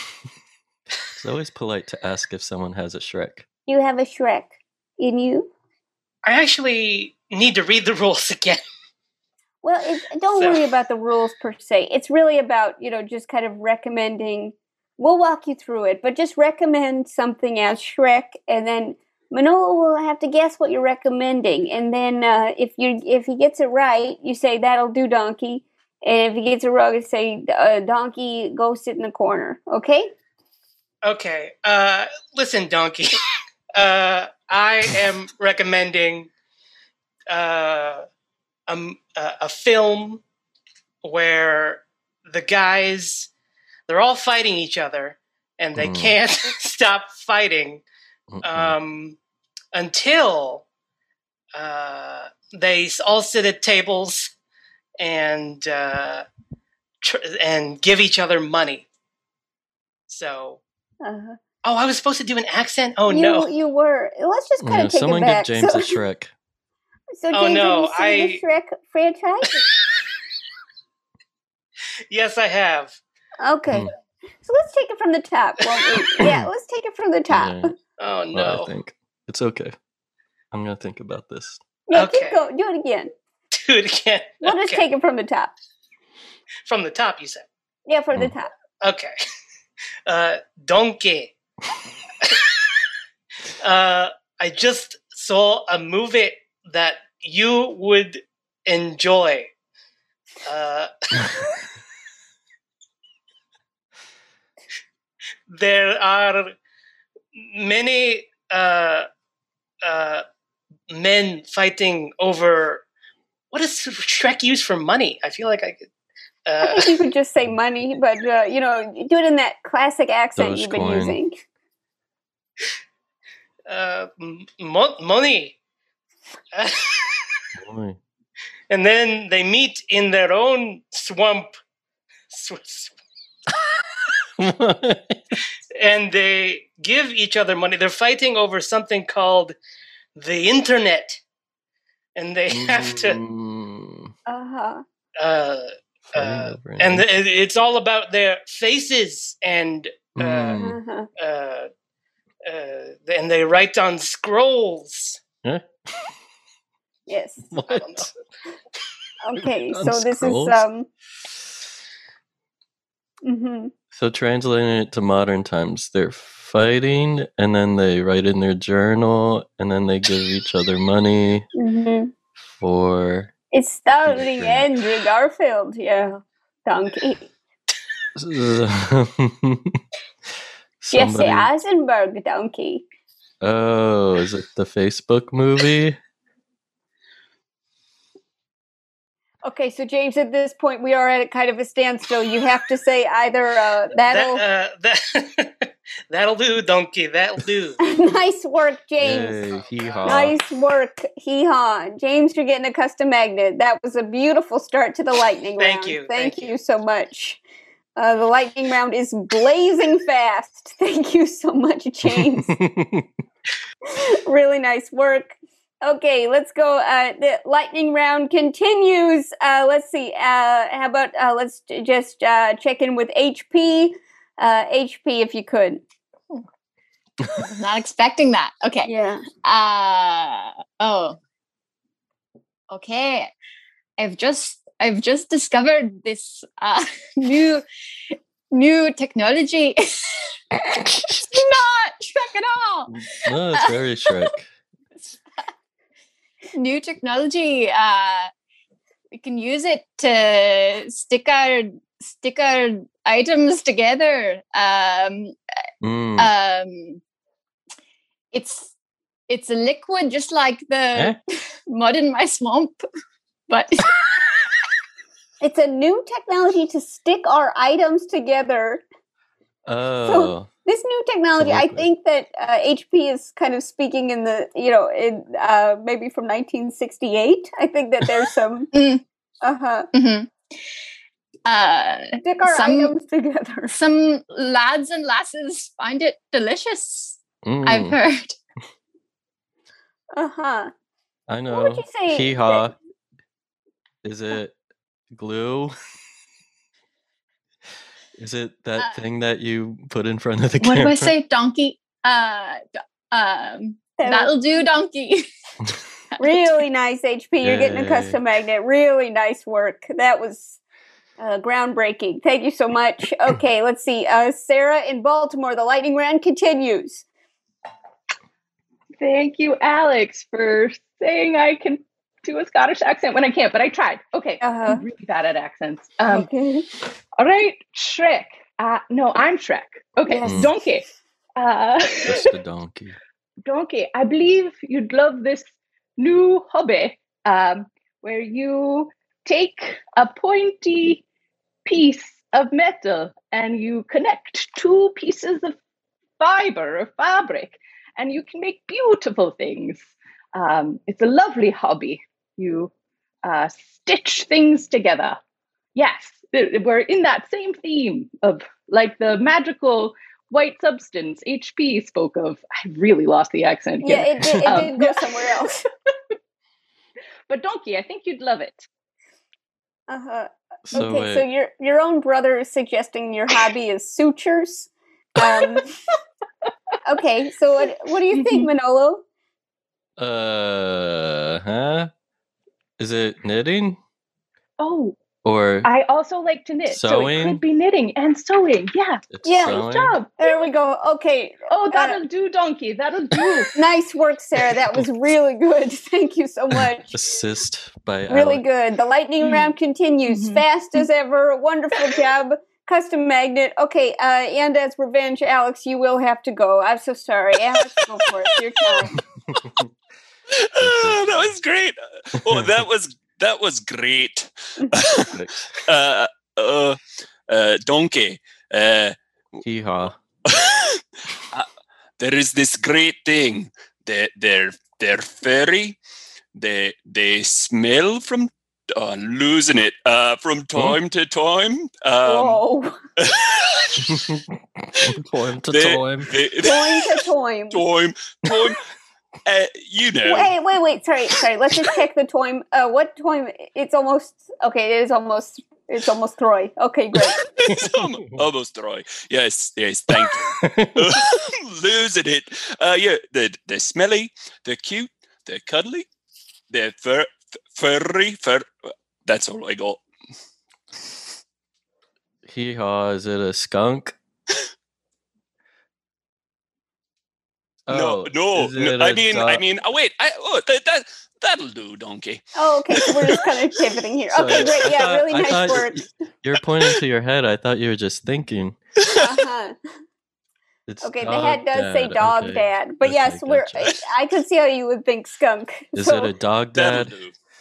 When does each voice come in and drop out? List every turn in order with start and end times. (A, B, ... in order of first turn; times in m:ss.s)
0:01.2-0:03.5 A
0:03.7-0:05.5 B
0:06.2-0:08.6 C
0:09.6-0:30.1 B
0:10.4-0:10.6 C
0:31.0-0:33.2 C
0:33.8-0:36.3 C
0:37.3-0:38.0 C
0:38.7-0:40.2 C
0:41.0-0:43.3 C
0:43.9-0:47.8 C
0:45.8-0:46.2 A
0:48.3-0:48.8 A
0:48.4-0:49.2 C
0:49.7-0:50.6 C
0:51.6-0:54.3 C
0:55.0-0:56.3 C
0:57.0-0:58.9 C
1:00.1-1:00.6 C
1:01.0-1:01.4 B
1:01.6-1:03.5 C
1:03.1-1:06.0 B
1:04.6-1:06.3 A
1:07.2-1:09.6 B
1:07.3-1:08.4 C
1:12.1-1:13.0 C
1:13.4-1:13.9 B
1:14.4-1:17.7 B
1:16.2-1:16.5 A
1:17.3-1:17.7 A
1:18.0-1:18.7 C
1:18.3-1:19.8 A
1:20.5-1:21.6 A
1:21.9-1:23.1 B
1:21.9-1:22.4 C
1:23.5-1:24.8 C
1:24.4-1:25.5 B
1:26.7-1:27.5 C
1:27.9-1:28.5 B
1:28.8-1:29.1 C
1:30.1-1:31.3 C
1:33.6-1:39.5 C
1:40.4-1:40.9 C
1:45.5-1:46.5 C
1:47.4-1:49.1 C
1:49.8-1:50.2 C
1:50.9-1:52.8 C
1:53.5-1:55.9 C
1:56.5-1:57.0 C
1:56.6-2:01.4 B
2:00.4-2:01.2 A
2:03.7-2:05.6 C
2:06.5-2:07.4 C
2:07.6-2:08.0 A
2:08.7-2:11.5 C
2:12.3-2:12.9 C
2:14.4-2:15.4 A
2:15.8-2:19.6 C
2:20.2-2:21.2 C
2:22.2-2:23.2 C
2:22.5-2:24.1 A
2:24.3-2:24.8 B
2:25.2-2:30.6 C
2:26.1-2:27.1 A
2:30.2-2:30.8 A
2:30.6-2:31.1 B
2:31.2-2:31.7 C
2:32.5-2:35.2 C
2:37.1-2:37.8 B
2:37.5-2:38.1 A
2:39.2-2:40.9 B
2:39.4-2:40.6 A
2:43.2-2:43.7 B
2:43.9-2:51.5 A
2:51.6-2:52.1 B
2:52.6-2:53.3 A
2:53.5-2:57.3 B
2:54.0-2:54.7 A
2:58.2-2:59.8 A
3:00.8-3:01.5 A
3:00.9-3:02.8 B
3:03.4-3:06.0 A
3:09.4-3:14.4 B
3:14.1-3:17.8 C
3:17.8-3:19.4 B
3:19.0-3:20.4 A
3:20.0-3:27.4 B
3:25.6-3:26.5 C
3:28.0-3:32.5 B
3:32.5-3:33.1 A
3:33.8-3:45.8 B
3:47.3-3:48.9 D
3:48.8-3:49.2 B
3:49.4-3:51.2 D
3:52.7-3:53.3 D
3:54.0-3:57.6 D
3:58.5-4:02.9 D
4:02.9-4:04.5 A
4:06.5-4:08.3 D
4:09.1-4:15.4 D
4:15.8-4:16.3 A
4:16.2-4:17.0 D
4:18.3-4:18.7 D
4:19.3-4:22.8 D
4:23.5-4:24.2 D
4:25.4-4:28.8 B
4:29.7-4:30.5 A
4:30.1-4:38.7 B
4:31.4-4:31.9 A
4:38.7-4:39.0 D
4:39.4-4:39.9 B
4:39.9-4:40.3 D
4:41.5-4:43.0 D
4:42.2-4:43.7 B
4:43.7-4:48.4 D
4:47.4-4:48.0 A
4:50.1-4:50.7 B
4:51.3-4:52.8 A
4:51.5-4:52.7 B
4:54.0-4:54.6 A
4:55.2-4:55.8 A
4:58.2-5:01.1 A
4:58.8-4:59.0 D
5:00.6-5:02.6 D
5:03.1-5:05.3 D
5:04.0-5:04.4 B
5:06.2-5:06.5 D
5:06.2-5:10.6 B
5:07.4-5:08.2 A
5:11.2-5:17.0 B
5:19.0-5:26.3 E
5:24.4-5:24.8 B
5:26.1-5:26.7 B
5:27.2-5:30.8 E
5:30.1-5:30.5 B
5:30.2-5:30.5 A
5:31.4-5:32.3 E
5:32.0-5:33.0 A
5:33.4-5:41.0 E
5:41.7-5:45.6 E
5:46.2-5:52.7 E
5:53.2-5:55.2 E
5:55.8-6:05.3 E
6:03.8-6:05.6 B
6:07.3-6:08.7 E
6:09.9-6:15.7 B
6:10.7-6:11.2 A
6:16.8-6:19.0 B
6:18.1-6:18.5 E
6:20.0-6:21.9 A
6:22.8-6:23.8 A
6:24.6-6:25.0 E
6:25.2-6:25.7 A
6:25.6-6:30.4 E
6:26.7-6:27.4 A
6:29.1-6:30.0 A
6:29.2-6:29.6 B
6:30.2-6:32.0 B
6:31.5-6:33.6 E
6:33.5-6:36.9 B
6:36.6-6:38.4 A
6:38.1-6:48.9 B
6:40.1-6:40.4 E
6:47.8-6:48.9 F
6:49.0-6:49.7 A
6:50.3-6:55.1 F
6:50.6-6:51.3 A
6:52.3-6:52.6 A
6:55.0-6:55.6 A
6:55.7-6:59.0 F
6:59.4-7:00.0 A
7:00.3-7:01.5 F
7:02.0-7:05.8 F
7:06.4-7:12.4 F
7:12.0-7:12.7 B
7:13.0-7:14.0 F
7:13.9-7:16.1 A
7:15.5-7:18.6 F
7:16.4-7:17.6 B
7:19.3-7:20.4 F
7:20.0-7:27.2 B
7:27.0-7:35.9 F
7:27.5-7:28.3 A
7:29.9-7:31.0 A
7:36.5-7:38.5 F
7:39.0-7:39.8 F
7:42.3-7:43.9 A
7:47.7-7:49.4 A
7:47.7-7:53.3 F
7:52.4-7:55.8 B
7:54.1-7:58.6 A
7:58.8-7:59.1 F
7:58.9-7:59.6 B
8:00.7-8:03.8 A
8:00.8-8:06.1 B
8:05.8-8:07.0 A
8:06.6-8:07.1 F